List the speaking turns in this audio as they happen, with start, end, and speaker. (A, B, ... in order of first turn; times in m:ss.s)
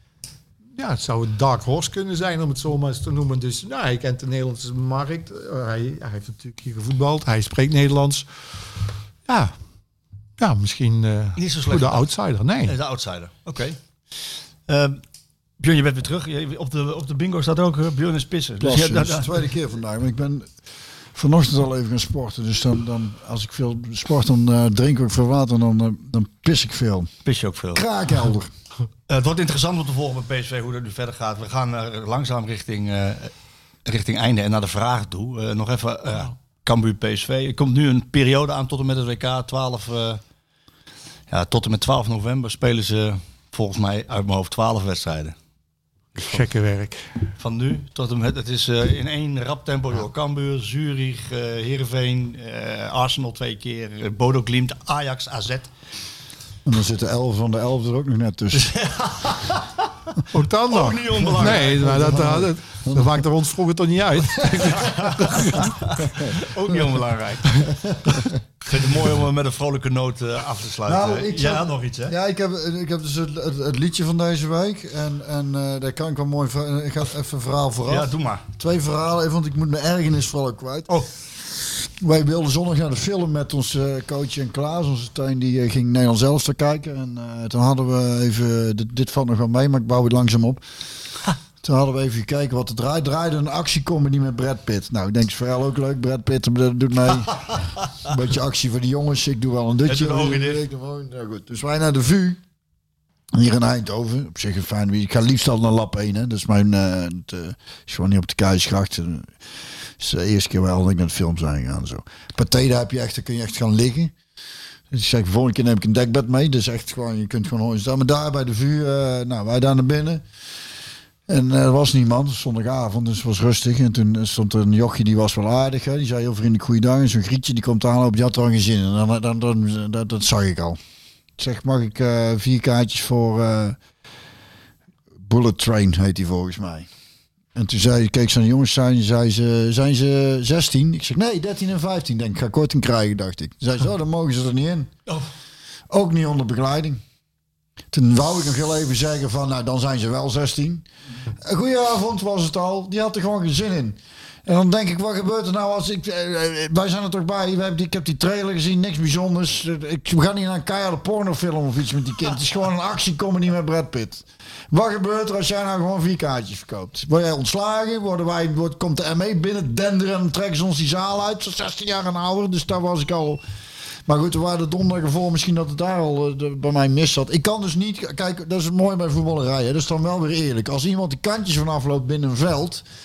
0:00.8-0:08.3 A
0:09.2-0:09.5 A
0:10.4-0:12.8 A
0:11.4-0:12.1 B
0:12.6-0:15.0 B
0:15.6-0:19.4 B
0:18.6-0:20.5 C
0:21.1-0:27.1 C
0:27.2-0:27.8 B
0:27.7-0:28.5 C
0:29.1-0:33.3 B
0:33.8-0:40.2 B
0:41.3-0:45.3 B
0:46.2-0:47.1 A
0:47.4-0:55.7 B
0:56.6-0:58.7 C
0:58.5-0:59.9 B
1:00.3-1:05.8 A
1:00.7-1:01.9 B
1:01.5-1:03.2 C
1:04.8-1:07.6 B
1:07.9-1:08.2 C
1:08.6-1:12.1 B
1:10.9-1:20.9 C
1:17.9-1:18.4 B
1:21.8-1:30.6 C
1:31.6-1:42.4 C
1:39.9-1:40.6 B
1:43.3-1:49.3 C
1:50.0-1:54.1 C
1:54.9-2:00.2 C
2:01.3-2:10.8 C
2:11.4-2:13.8 C
2:15.2-2:16.9 C
2:17.5-2:24.9 C
2:25.9-2:27.0 C
2:27.9-2:30.8 C
2:31.4-2:53.4 C
2:54.0-3:02.8 C